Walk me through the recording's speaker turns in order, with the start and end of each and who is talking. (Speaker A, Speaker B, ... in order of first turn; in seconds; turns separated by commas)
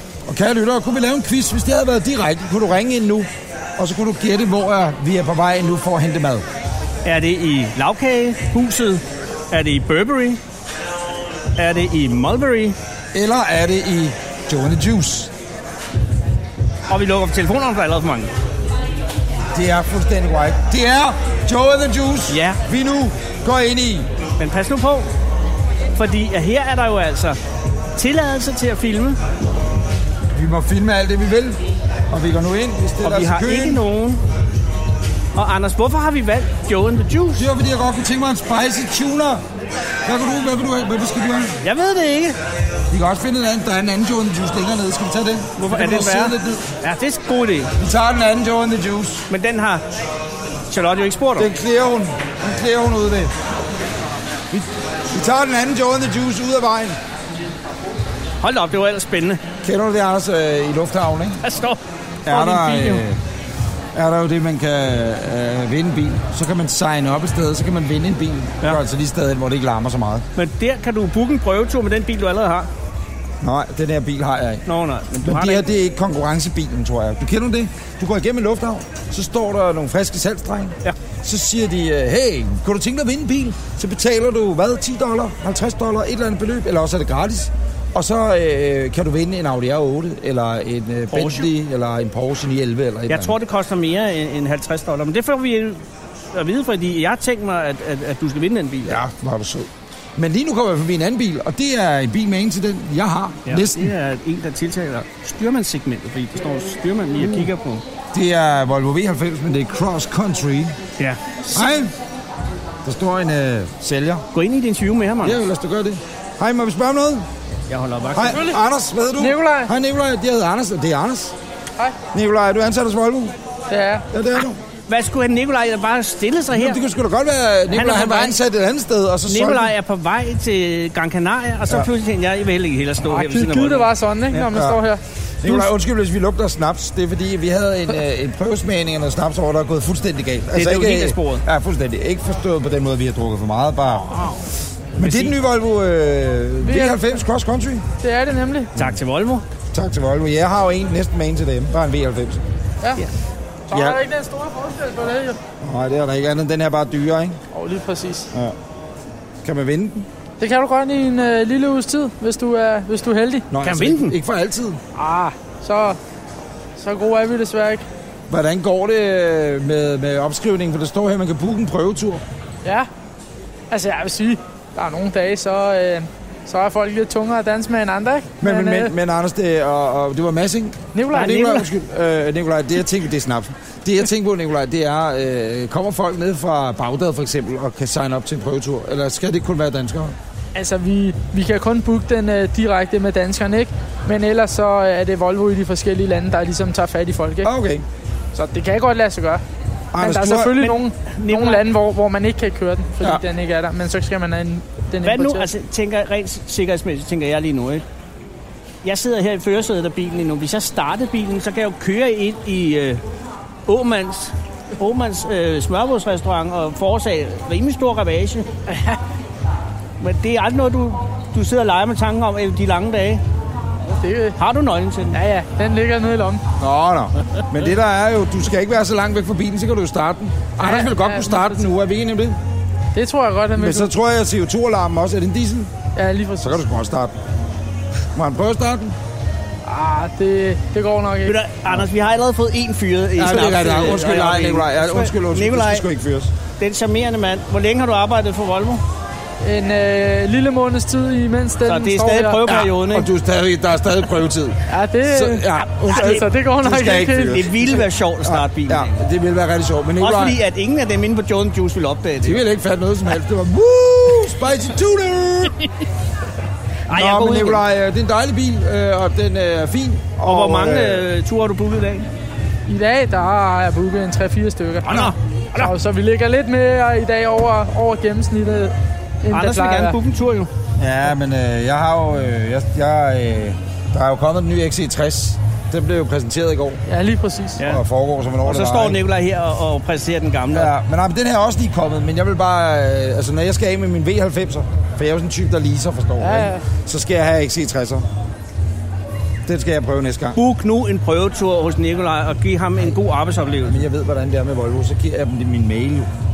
Speaker A: 0.2-6.4, Speaker B: 7.0-10.4, Speaker B: 11.6-12.8, Speaker A: 13.1-15.3, Speaker B: 16.9-18.3, Speaker A: 19.5-24.1, Speaker B: 22.3-22.6, Speaker B: 24.4-25.1, Speaker B: 25.9-27.4, Speaker B: 27.9-29.2, Speaker A: 30.3-33.8, Speaker B: 33.0-34.2, Speaker B: 35.3-37.5, Speaker A: 37.4-39.4, Speaker A: 40.0-41.6, Speaker B: 41.6-42.4, Speaker A: 42.9-46.6, Speaker B: 45.6-47.7, Speaker A: 47.8-49.2, Speaker B: 49.3-49.8, Speaker B: 50.7-51.5, Speaker A: 51.4-53.3, Speaker A: 54.5-57.0, Speaker B: 58.4-59.4, Speaker A: 59.6-61.4, Speaker B: 61.4-63.0, Speaker A: 62.2-63.2, Speaker A: 63.9-70.2, Speaker B: 70.3-72.7, Speaker A: 73.4-74.6, Speaker B: 74.7-75.6, Speaker A: 75.2-93.3, Speaker B: 91.1-91.5, Speaker B: 93.1-95.8, Speaker B: 96.3-99.0, Speaker A: 98.8-103.9, Speaker B: 103.5-107.8, Speaker A: 107.2-107.5, Speaker A: 108.1-110.8, Speaker B: 111.0-111.4, Speaker A: 111.5-111.9, Speaker A: 112.8-114.2, Speaker B: 114.3-115.4, Speaker A: 115.2-117.3, Speaker B: 117.7-118.4, Speaker A: 118.1-121.3, Speaker C: 119.2-119.7, Speaker A: 122.1-123.3, Speaker C: 123.7-124.1, Speaker A: 124.1-124.6, Speaker B: 124.9-126.8, Speaker A: 126.5-129.7, Speaker B: 127.7-128.4, Speaker B: 129.3-133.9, Speaker C: 133.0-135.6, Speaker A: 134.5-134.8, Speaker A: 135.4-144.1, Speaker B: 140.5-141.4, Speaker B: 144.1-144.4, Speaker A: 145.0-147.8, Speaker B: 145.0-145.3, Speaker C: 146.6-147.2, Speaker C: 148.0-148.7, Speaker B: 148.8-149.4, Speaker A: 149.7-152.4, Speaker C: 153.7-155.4, Speaker A: 153.7-154.0, Speaker A: 155.6-157.4, Speaker C: 157.5-158.3, Speaker A: 159.4-160.1, Speaker C: 160.4-163.5, Speaker A: 163.5-164.8, Speaker B: 163.6-164.1, Speaker C: 164.9-166.0, Speaker C: 166.8-167.8, Speaker A: 168.3-172.2, Speaker C: 173.7-178.9, Speaker A: 178.4-190.1, Speaker C: 180.9-181.7, Speaker C: 190.5-197.5, Speaker A: 197.4-197.8, Speaker C: 198.3-199.4, Speaker A: 199.9-200.7, Speaker C: 200.0-205.5, Speaker B: 200.6-201.6, Speaker B: 205.0-207.8, Speaker B: 208.8-213.0, Speaker B: 213.7-218.5, Speaker C: 218.7-219.0, Speaker B: 220.0-223.2, Speaker C: 223.8-224.4, Speaker B: 224.4-225.2, Speaker C: 225.1-226.4, Speaker A: 226.6-232.4, Speaker C: 230.6-231.6, Speaker C: 232.9-233.9, Speaker A: 233.6-235.7, Speaker C: 235.9-236.6, Speaker A: 236.4-237.2, Speaker A: 238.1-238.9, Speaker C: 239.6-241.4, Speaker B: 241.2-245.9, Speaker A: 243.2-246.3, Speaker B: 246.6-248.8, Speaker C: 249.4-252.7, Speaker B: 251.7-253.1, Speaker A: 252.8-260.4, Speaker C: 254.7-257.5, Speaker B: 255.9-256.2, Speaker B: 257.3-259.0, Speaker B: 260.0-262.4, Speaker A: 262.2-265.6, Speaker B: 266.9-267.6, Speaker A: 266.9-271.1, Speaker B: 270.2-272.1, Speaker C: 272.7-280.0, Speaker B: 274.8-275.7, Speaker B: 279.3-280.5, Speaker A: 280.8-286.8, Speaker C: 286.9-287.6, Speaker A: 287.6-289.0, Speaker B: 288.4-290.7, Speaker A: 290.5-298.1, Speaker C: 296.2-296.6, Speaker A: 299.4-300.4, Speaker B: 300.4-303.8, Speaker A: 303.6-306.1